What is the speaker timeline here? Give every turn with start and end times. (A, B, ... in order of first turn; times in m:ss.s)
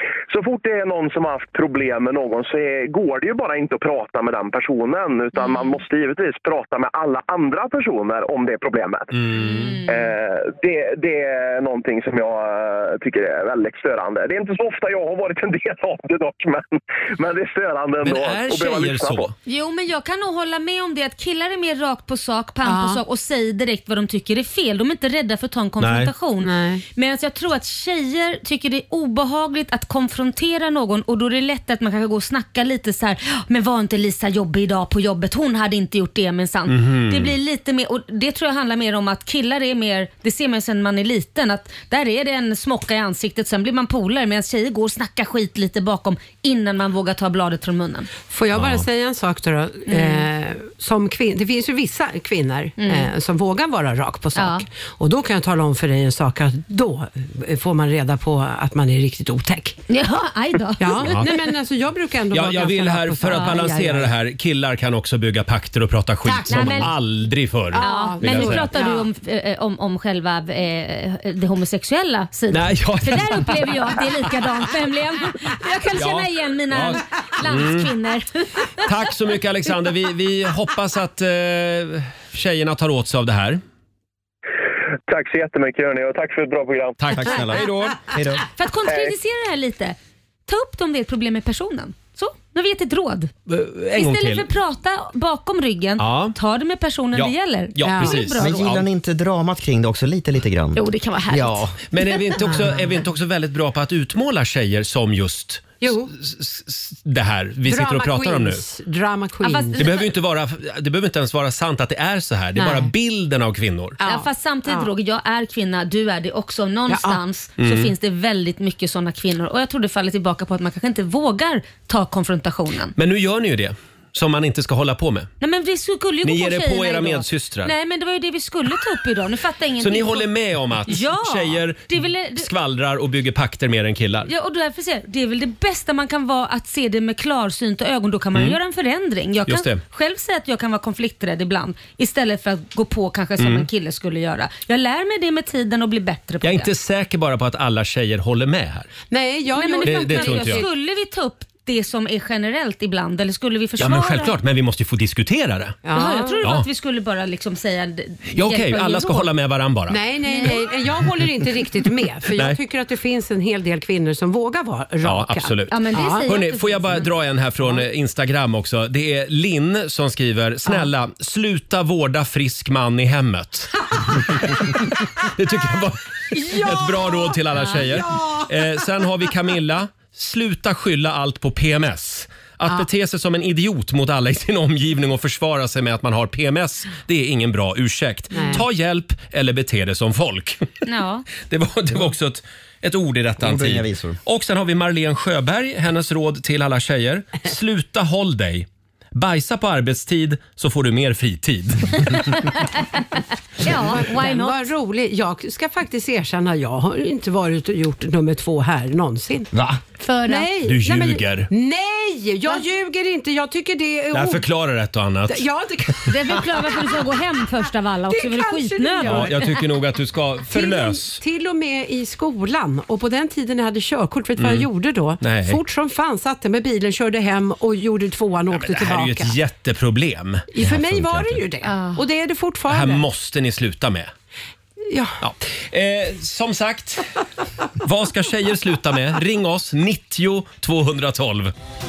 0:00.3-0:09.1 A
0:05.4-0:05.8 B
0:09.1-0:09.8 C
0:09.3-0:10.1 B
0:09.9-0:19.3 A
0:18.0-0:19.3 C
0:19.4-0:48.1 B
0:22.6-0:23.0 D
0:25.8-0:26.1 C
0:26.4-0:26.8 D
0:36.7-0:37.4 C
0:48.3-0:59.8 D
0:48.5-0:48.8 C
0:49.9-0:50.3 B
0:52.8-0:53.1 B
0:54.3-0:54.6 B
0:59.9-1:01.2 B
1:00.8-1:04.1 D
1:01.0-1:01.4 C
1:02.3-1:08.7 C
1:06.2-1:06.9 D
1:06.4-1:06.9 B
1:07.7-1:09.1 D
1:07.8-1:18.9 B
1:12.5-1:13.9 C
1:16.0-1:17.9 C
1:18.8-1:23.6 C
1:25.1-1:27.0 A
1:27.0-1:28.0 C
1:27.1-1:28.4 E
1:28.6-1:30.0 B
1:30.5-1:33.3 B
1:33.5-1:34.5 C
1:34.0-1:38.6 B
1:36.0-1:36.4 C
1:37.1-1:38.8 C
1:37.8-1:38.2 D
1:38.4-1:41.8 E
1:40.7-1:41.6 B
1:41.9-1:48.6 C
1:42.4-1:43.0 D
1:45.8-1:46.1 D
1:47.6-1:50.0 D
1:49.4-1:50.1 B
1:49.8-1:54.0 C
1:52.6-1:52.9 D
1:54.0-1:54.9 D
1:54.0-2:02.9 B
1:56.9-1:57.2 D
1:57.6-1:57.9 C
2:03.0-2:05.3 C
2:05.4-2:10.3 B
2:06.2-2:07.7 C
2:09.8-2:14.3 C
2:10.9-2:12.5 B
2:14.2-2:26.7 B
2:19.5-2:19.8 C
2:23.4-2:23.6 C
2:26.4-2:28.9 C
2:29.1-2:30.7 D
2:29.5-2:34.3 B
2:29.8-2:30.6 C
2:33.8-2:35.8 C
2:35.8-2:36.4 D
2:35.9-2:39.3 B
2:38.3-2:40.0 C
2:39.9-2:46.3 D
2:40.2-2:40.6 B
2:42.3-2:42.6 C
2:45.0-3:10.8 C
2:45.7-2:47.1 B
2:56.4-2:58.4 D
3:08.3-3:08.6 D
3:10.8-3:11.2 B
3:11.4-3:22.4 C
3:13.4-3:14.2 E
3:22.1-3:22.8 B
3:23.6-3:24.7 B
3:23.6-3:29.5 D
3:29.5-3:29.8 E
3:30.0-3:30.5 B
3:30.2-3:34.4 D
3:30.6-3:31.5 C
3:34.1-3:35.5 C
3:35.3-3:37.0 D
3:36.0-3:39.4 B
3:38.1-3:39.6 D
3:39.0-3:41.2 C
3:40.5-3:49.4 D
3:44.4-3:44.7 C
3:45.2-3:45.6 C
3:48.5-3:51.4 C
3:50.5-3:53.0 D
3:51.6-3:52.0 B
3:52.7-3:54.1 C
3:54.9-3:55.2 D
3:55.2-3:57.0 C
3:57.8-4:01.5 C